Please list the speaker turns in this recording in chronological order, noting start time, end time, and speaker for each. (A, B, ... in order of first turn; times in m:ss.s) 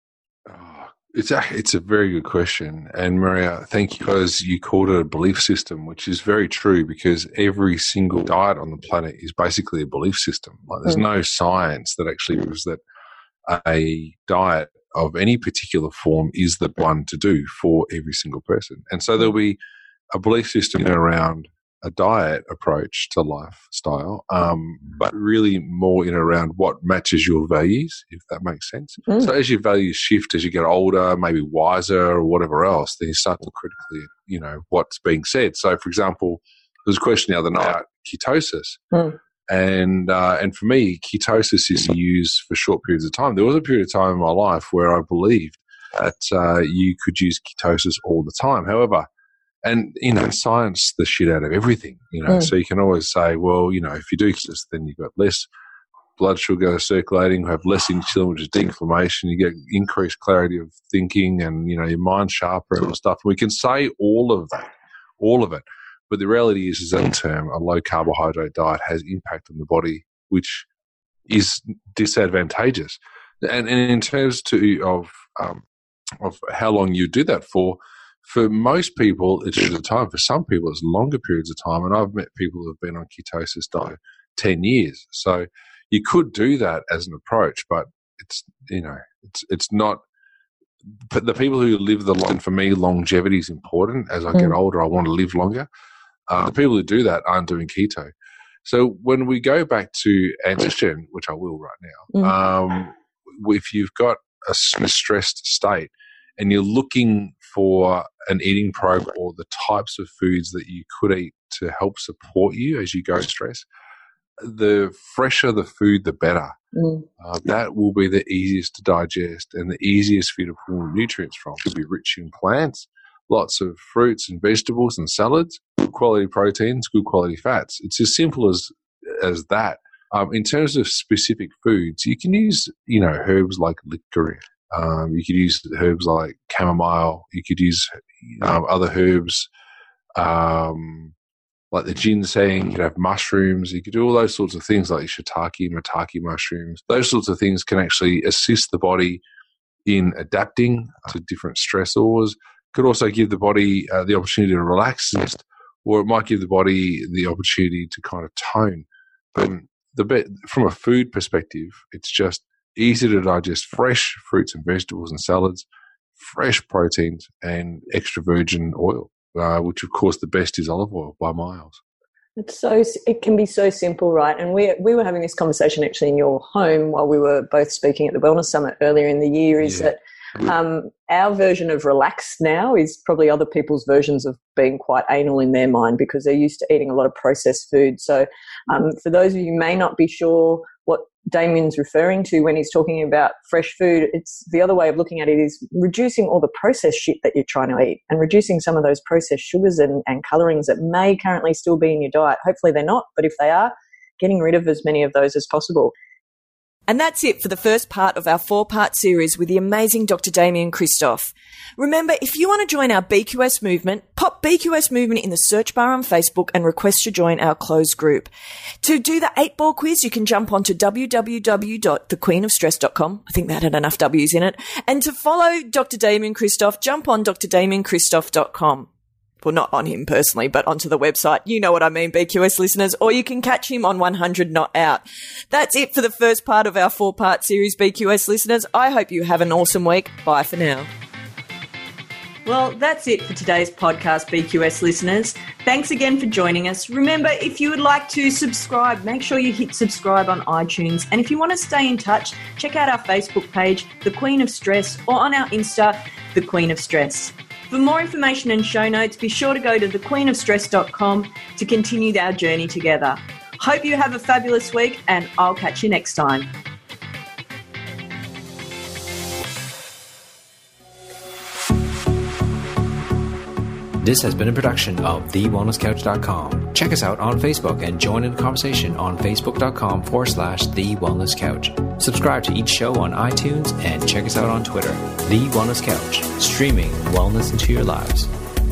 0:00.5-0:12.8 A
0:13.5-0:19.6 A
0:20.1-0:38.8 A
0:38.9-0:39.2 B
0:39.5-0:49.1 A
0:49.6-0:55.5 A
0:52.3-0:52.5 B
0:56.2-1:10.7 A
1:11.3-1:15.6 A
1:16.2-1:30.0 A
1:31.0-1:35.7 A
1:34.3-1:34.6 B
1:36.3-1:38.1 A
1:38.6-1:53.7 A
1:54.4-1:56.5 A
1:56.8-1:57.1 B
1:57.2-2:19.5 A
2:20.2-2:21.1 A
2:21.7-2:29.2 A
2:29.9-2:51.8 A
2:52.4-3:25.9 B
2:59.6-2:59.9 A
3:26.9-3:38.3 B
3:38.8-3:48.9 B
3:49.4-4:00.9 B
4:02.4-4:26.5 B
4:34.0-4:48.3 C